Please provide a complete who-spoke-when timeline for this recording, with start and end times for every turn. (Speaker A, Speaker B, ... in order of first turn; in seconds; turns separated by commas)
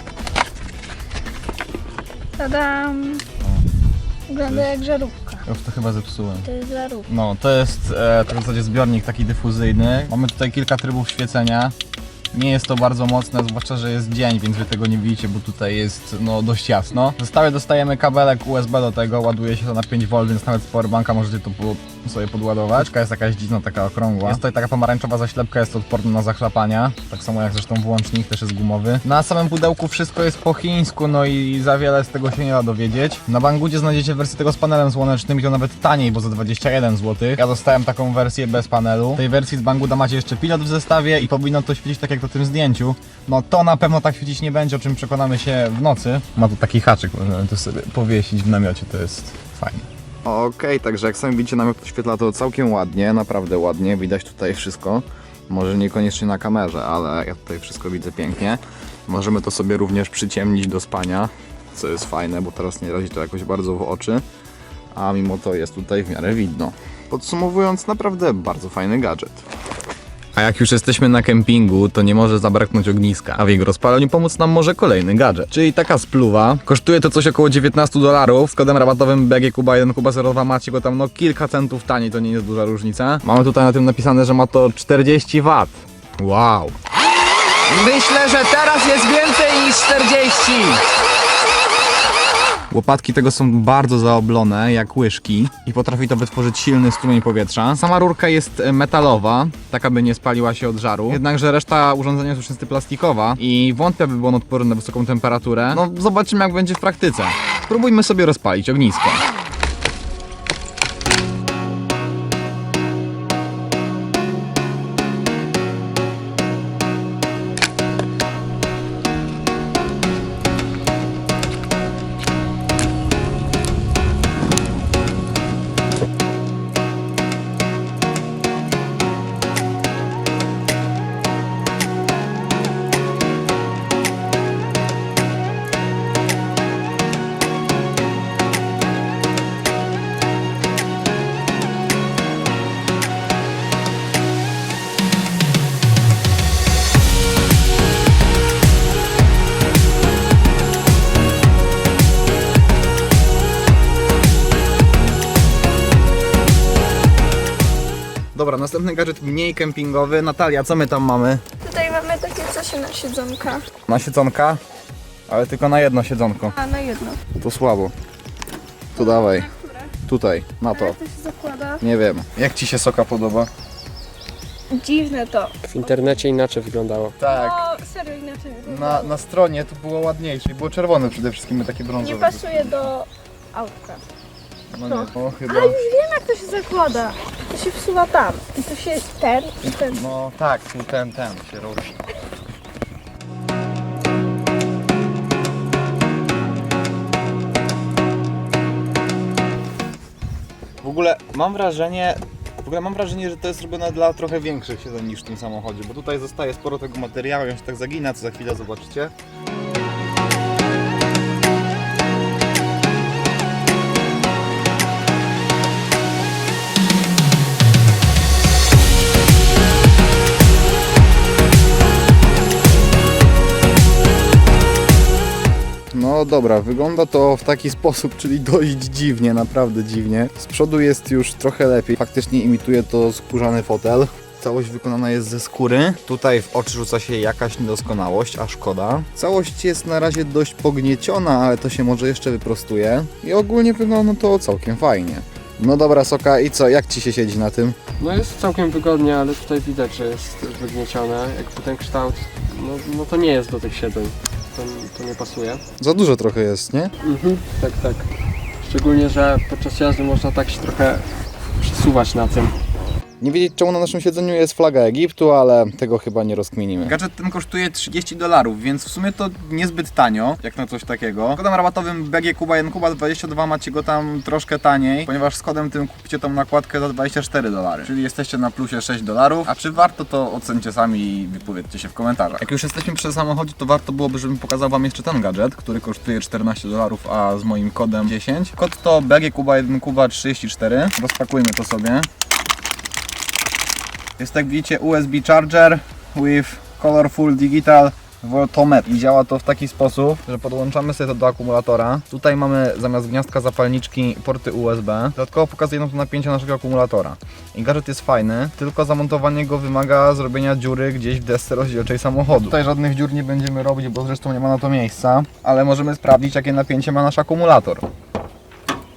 Speaker A: 2.4-3.2, Speaker B: 3.4-3.7, Speaker A: 4.3-5.4, Speaker B: 4.4-4.8, Speaker B: 5.4-6.5, Speaker A: 6.5-7.1, Speaker B: 7.1-11.8, Speaker B: 12.3-64.2, Speaker B: 65.0-69.4, Speaker B: 70.3-86.8, Speaker B: 87.7-90.8, Speaker B: 92.7-109.3, Speaker B: 158.3-161.4, Speaker A: 161.6-163.7, Speaker B: 163.9-164.6, Speaker B: 165.3-166.6, Speaker A: 166.6-167.2, Speaker B: 167.3-167.9, Speaker B: 168.9-171.0, Speaker A: 169.2-169.9, Speaker A: 170.7-171.8, Speaker B: 171.8-173.5, Speaker A: 174.7-175.6, Speaker C: 175.7-177.2, Speaker B: 177.2-177.7, Speaker A: 177.3-179.2, Speaker B: 178.6-182.9, Speaker A: 182.0-184.0, Speaker B: 184.7-185.9, Speaker A: 184.9-189.9, Speaker B: 189.6-192.2, Speaker B: 200.8-209.1, Speaker B: 225.9-247.8, Speaker C: 248.0-255.6, Speaker B: 255.8-256.9, Speaker C: 257.0-258.1, Speaker C: 258.6-261.1, Speaker C: 261.6-262.5, Speaker B: 263.2-292.1, Speaker B: 294.2-317.9